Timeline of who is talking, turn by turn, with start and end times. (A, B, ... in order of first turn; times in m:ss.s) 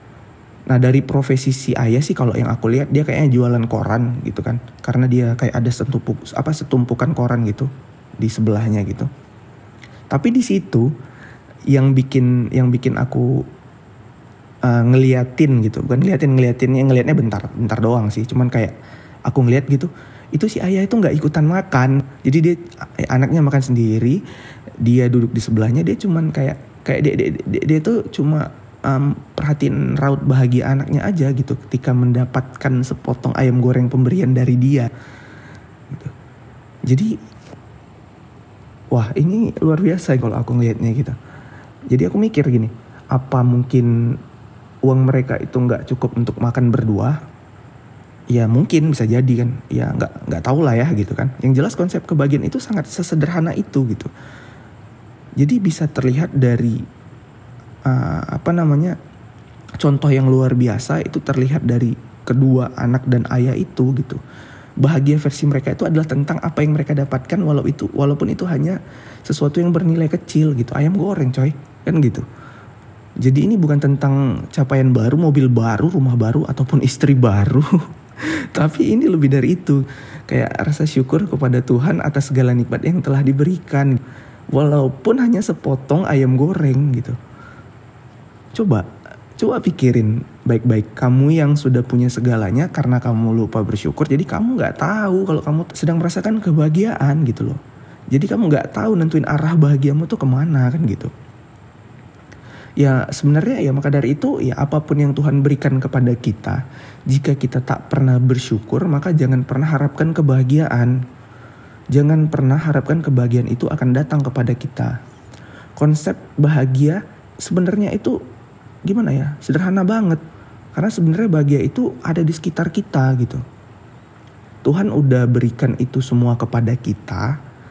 0:00.7-0:09.1 A
0:10.1-0:10.9 A
0:11.7-0:13.4 A
0:14.6-0:18.7 A
0:19.3-0:24.2 A
0:24.8-0:34.9 A
0:36.9-0:37.1 A
0:38.9-0:41.2 A
0:41.9-0:43.9 A
0:44.8-0:47.2 A
0:48.3-0:54.1 A
0:55.4-0:56.8 A
0:57.8-0:59.0 A
0:59.8-1:04.2 A
1:04.8-1:12.2 A
1:13.2-1:24.0 A
1:24.5-1:27.2 A
1:28.5-1:37.6 A
1:38.1-1:41.1 A
1:42.8-1:51.0 A
1:51.9-1:55.0 A
1:55.8-1:58.2 A
1:58.9-2:00.2 A
2:00.7-2:03.4 A
2:04.6-2:07.3 A